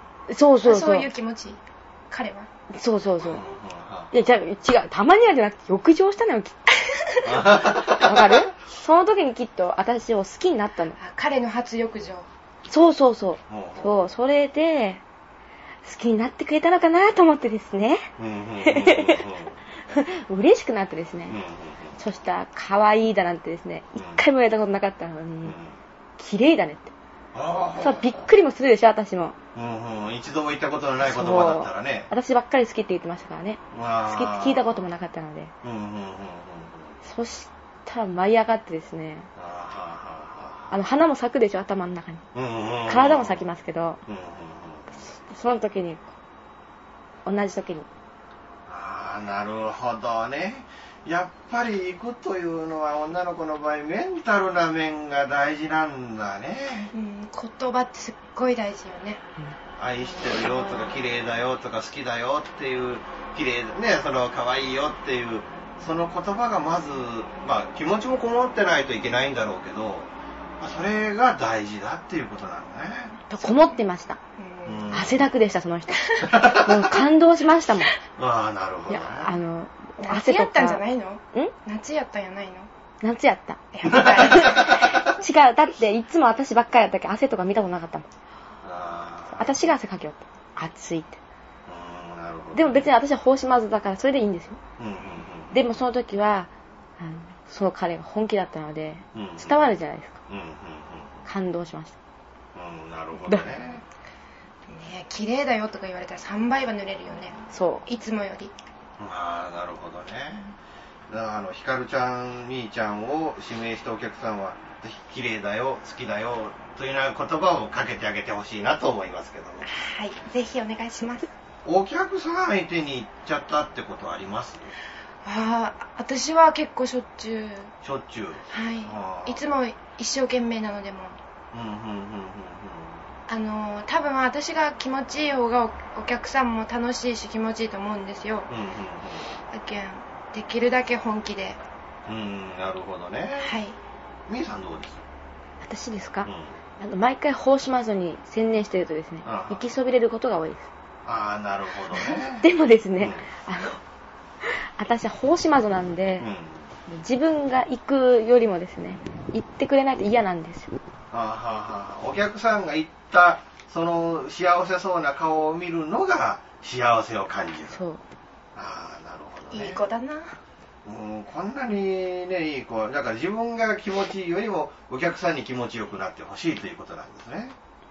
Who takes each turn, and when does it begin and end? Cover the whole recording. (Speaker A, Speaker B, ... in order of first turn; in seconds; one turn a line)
Speaker A: 0.3-1.1
Speaker B: 0.6-2.5
Speaker A: 2.7-3.4
Speaker C: 3.2-4.1
Speaker A: 4.1-6.6
Speaker C: 7.2-8.5
Speaker A: 7.9-11.0
Speaker B: 11.0-12.3
Speaker A: 12.7-15.0
Speaker C: 13.5-14.1
Speaker A: 15.8-18.1
Speaker C: 18.2-19.6
Speaker A: 18.6-19.2
Speaker A: 19.9-21.4
Speaker C: 21.3-22.0
Speaker A: 22.0-25.6
Speaker C: 23.9-24.2
Speaker C: 25.4-25.8
Speaker A: 26.2-26.9
Speaker C: 27.3-28.3
Speaker A: 27.8-29.4
Speaker C: 29.6-32.1
Speaker A: 31.0-35.5
Speaker C: 33.7-34.9
Speaker C: 35.6-37.0
Speaker A: 37.0-39.3
Speaker C: 39.4-40.7
Speaker A: 40.7-42.2
Speaker C: 42.3-43.5
Speaker A: 42.9-44.0
Speaker C: 44.1-44.9
Speaker A: 44.9-46.1
Speaker A: 47.2-47.9
Speaker C: 48.7-56.9
Speaker B: 56.9-59.2
Speaker C: 59.8-73.5
Speaker A: 73.3-74.2
Speaker B: 74.4-74.9
Speaker C: 74.7-75.3
Speaker A: 74.9-77.9
Speaker C: 76.2-76.9
Speaker C: 78.2-79.3
Speaker A: 78.9-80.8
Speaker B: 80.0-82.7
Speaker A: 83.0-83.6
Speaker B: 83.7-85.0
Speaker C: 83.8-85.0
Speaker A: 84.3-88.1
Speaker C: 88.6-89.7
Speaker A: 89.3-91.2
Speaker C: 91.7-92.9
Speaker A: 92.5-94.6
Speaker C: 94.8-95.5
Speaker A: 95.5-100.2
Speaker C: 99.1-99.6
Speaker C: 100.3-101.2
Speaker A: 101.2-102.0
Speaker C: 102.5-103.8
Speaker B: 104.7-108.5
Speaker A: 107.5-107.8
Speaker C: 109.0-110.6
Speaker C: 111.1-119.7
Speaker B: 119.7-121.3
Speaker C: 121.7-124.7
Speaker B: 125.2-127.7
Speaker C: 127.8-129.5
Speaker B: 128.5-131.2
Speaker C: 131.5-133.1
Speaker B: 133.3-138.5
Speaker C: 138.5-139.3
Speaker B: 139.5-141.6
Speaker C: 142.1-143.6
Speaker B: 143.4-143.8
Speaker C: 144.3-145.1
Speaker A: 145.6-150.7
Speaker C: 146.3-146.6
Speaker C: 149.2-149.7
Speaker C: 151.1-152.5
Speaker A: 152.4-153.8
Speaker C: 153.0-153.3
Speaker A: 154.4-156.3
Speaker C: 156.2-156.7
Speaker A: 156.9-160.7
Speaker C: 161.1-167.8
Speaker A: 167.7-168.0
Speaker C: 168.6-169.8
Speaker B: 169.5-170.4
Speaker C: 170.8-177.6